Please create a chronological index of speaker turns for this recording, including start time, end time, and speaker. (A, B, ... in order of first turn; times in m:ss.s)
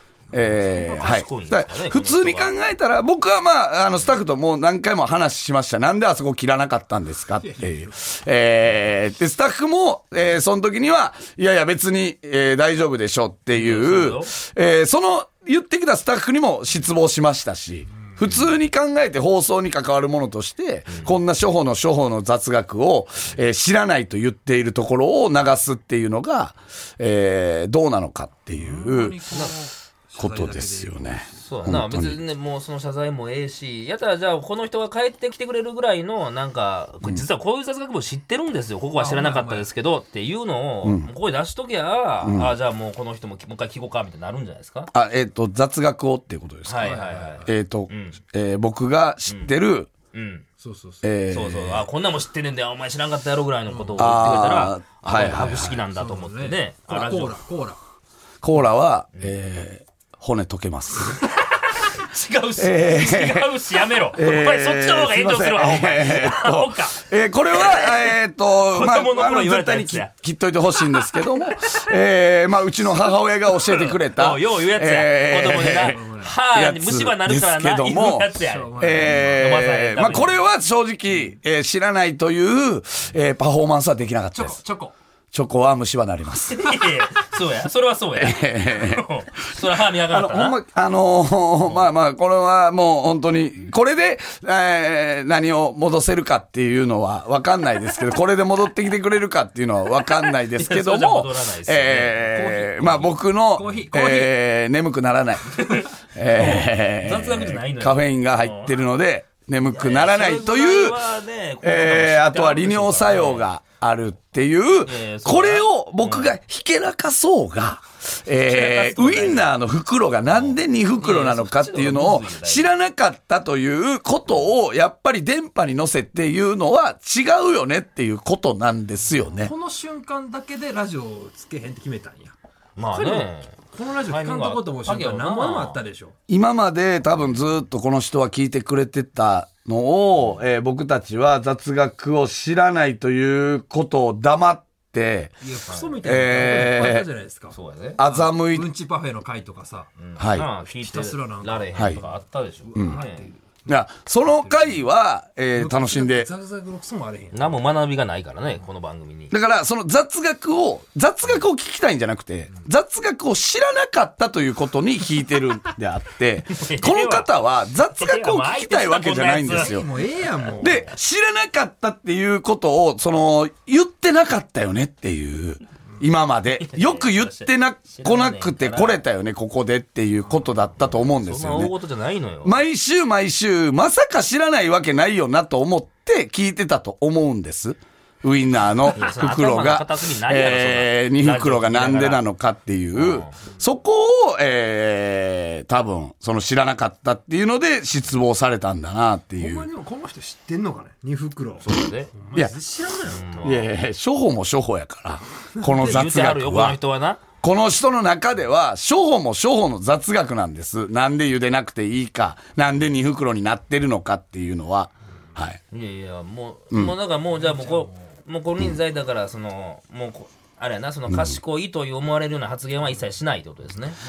0:00.3-0:29.2 A
0:00.4-0:02.6 B
0:07.4-0:07.9 C
0:13.5-0:14.3 B
0:20.9-0:21.1 B
0:28.5-0:31.5 C
0:30.2-0:32.2 A
0:31.4-0:44.9 B
0:39.0-0:39.7 C
0:40.8-0:41.1 A
0:42.2-0:42.5 A
0:44.9-0:49.9 A
0:46.6-0:48.2 B
0:46.8-0:47.5 C
0:49.3-0:49.5 B
0:50.1-0:50.4 B
0:50.6-0:51.0 C
0:51.0-0:51.8 A
0:51.3-0:57.4 B
0:53.7-0:54.3 C
0:54.0-0:55.8 A
0:55.2-0:57.8 C
0:58.4-1:01.2 A
1:01.2-1:10.1 B
1:02.6-1:03.5 A
1:04.1-1:24.6 A
1:10.8-1:11.8 B
1:13.5-1:20.4 B
1:15.7-1:16.3 C
1:18.3-1:19.5 C
1:24.3-1:24.9 C
1:25.3-1:26.7 A
1:26.5-1:30.6 B
1:28.2-1:29.1 A
1:30.0-1:51.0 A
1:40.4-1:43.9 B
1:43.5-1:44.3 C
1:45.5-1:48.8 B
1:49.6-1:53.5 B
1:51.6-2:09.5 A
1:54.8-1:56.4 B
1:58.4-1:59.5 B
2:00.3-2:02.7 B
2:09.4-2:12.3 C
2:12.8-2:15.8 B
2:12.9-2:16.1 C
2:16.3-2:25.3 A
2:25.4-2:29.9 C
2:26.0-2:27.1 A
2:27.5-2:28.0 B
2:28.0-2:28.7 A
2:30.0-2:33.3 B
2:30.2-2:30.5 A
2:30.7-2:32.0 C
2:31.7-2:32.0 A
2:32.6-2:33.6 C
2:32.7-2:33.0 A
2:33.6-2:36.3 A
2:34.2-2:34.8 C
2:35.5-2:37.6 C
2:37.3-2:39.3 B
2:39.3-2:49.9 A
2:46.5-2:47.3 B
2:47.9-2:49.8 B
2:49.5-2:50.9 C
2:50.4-2:50.9 B
2:50.6-3:01.7 A
2:56.6-2:59.0 B
3:00.8-3:02.6 B
3:02.4-3:19.7 A
3:08.9-3:12.2 B
3:12.9-3:13.4 B
3:19.4-3:23.6 C
3:21.6-3:22.1 B
3:23.0-3:23.6 B
3:23.4-3:26.8 A
3:25.7-3:27.2 B
3:27.4-3:35.6 A
3:35.7-3:44.0 B
3:37.5-3:37.9 C
3:41.1-3:41.4 A